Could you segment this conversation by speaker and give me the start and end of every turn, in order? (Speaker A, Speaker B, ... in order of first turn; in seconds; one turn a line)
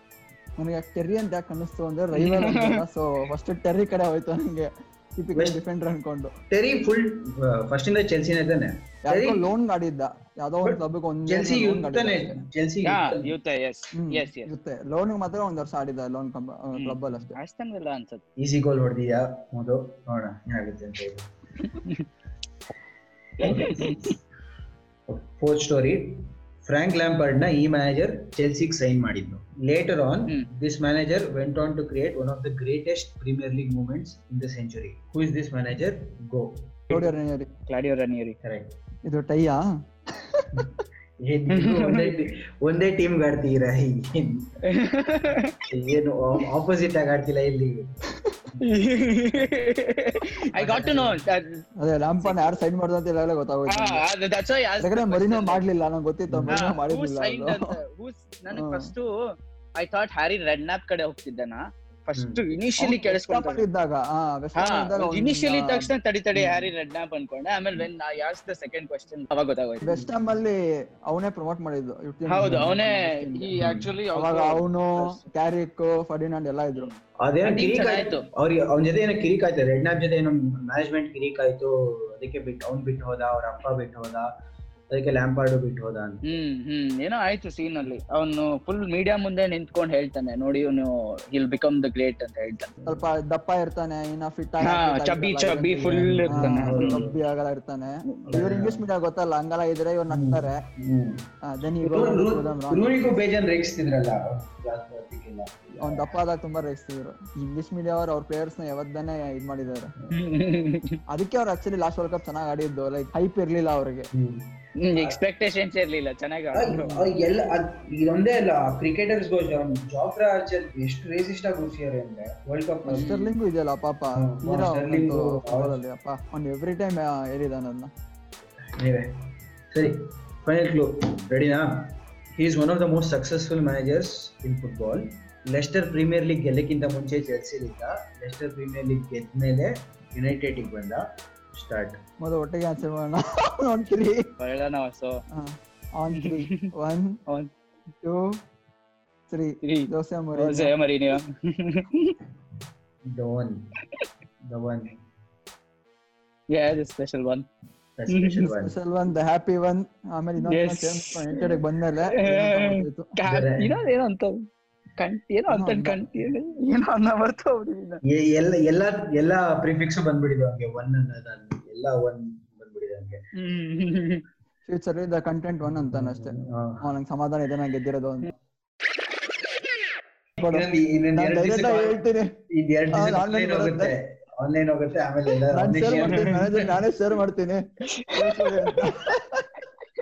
Speaker A: 0.6-6.3
Speaker B: 2.2-2.8
Speaker C: 6.5-9.5
Speaker A: 9.0-12.4
Speaker C: 10.6-13.3
Speaker B: 12.8-14.5
Speaker A: 13.9-17.4
Speaker B: 16.8-18.2
Speaker C: 18.4-21.2
Speaker B: 23.4-24.1
Speaker C: 23.5-24.1
Speaker C: 25.1-36.8
Speaker A: 36.9-37.5
Speaker B: 37.7-38.4
Speaker C: 38.4-38.7
Speaker A: 39.0-39.8
Speaker C: 41.2-44.4
Speaker B: 41.5-42.1
Speaker B: 44.7-45.4
Speaker C: 45.7-47.9
Speaker B: 48.6-51.6
Speaker C: 50.6-51.2
Speaker A: 51.8-54.0
Speaker B: 52.2-52.6
Speaker B: 53.7-55.6
Speaker A: 54.8-57.8
Speaker C: 56.3-56.6
Speaker B: 56.5-59.1
Speaker A: 58.5-58.9
Speaker B: 59.8-63.6
Speaker C: 62.1-62.4
Speaker A: 62.8-66.7
Speaker B: 64.5-69.9
Speaker A: 69.8-70.5
Speaker A: 71.1-73.5
Speaker B: 72.3-75.2
Speaker C: 73.6-73.9
Speaker A: 74.1-76.9
Speaker B: 76.7-78.2
Speaker C: 77.2-84.3
Speaker C: 84.9-86.2
Speaker B: 86.3-92.7
Speaker A: 92.8-100.6
Speaker B: 94.6-97.0
Speaker C: 96.1-97.2
Speaker C: 98.3-98.8
Speaker C: 100.1-101.2
Speaker A: 101.4-103.2
Speaker C: 101.8-106.1
Speaker A: 105.8-109.9
Speaker B: 110.1-111.0
Speaker A: 111.1-114.1
Speaker C: 114.1-115.2
Speaker B: 114.8-117.0
Speaker C: 116.5-123.1
Speaker A: 116.8-117.1
Speaker A: 122.8-127.9
Speaker B: 122.9-123.3
Speaker C: 124.2-125.7
Speaker C: 128.8-129.1
Speaker C: 129.7-142.0
Speaker A: 142.2-144.3
Speaker B: 144.4-145.2
Speaker A: 145.3-147.2
Speaker B: 146.2-146.6
Speaker A: 148.0-148.4
Speaker A: 149.3-150.7
Speaker B: 149.6-152.2
Speaker C: 153.1-153.6
Speaker C: 154.4-154.9
Speaker B: 156.5-157.5
Speaker C: 158.0-158.7
Speaker B: 158.1-158.5
Speaker A: 158.6-163.1
Speaker B: 160.4-161.5
Speaker B: 162.2-164.4
Speaker C: 163.3-163.7
Speaker B: 165.0-168.0
Speaker A: 165.5-166.0
Speaker C: 168.1-173.2
Speaker B: 173.4-174.2
Speaker A: 174.7-178.3
Speaker C: 175.9-176.8
Speaker A: 180.4-182.3
Speaker C: 180.4-182.0
Speaker C: 182.5-186.7
Speaker A: 182.9-183.9
Speaker A: 185.5-189.4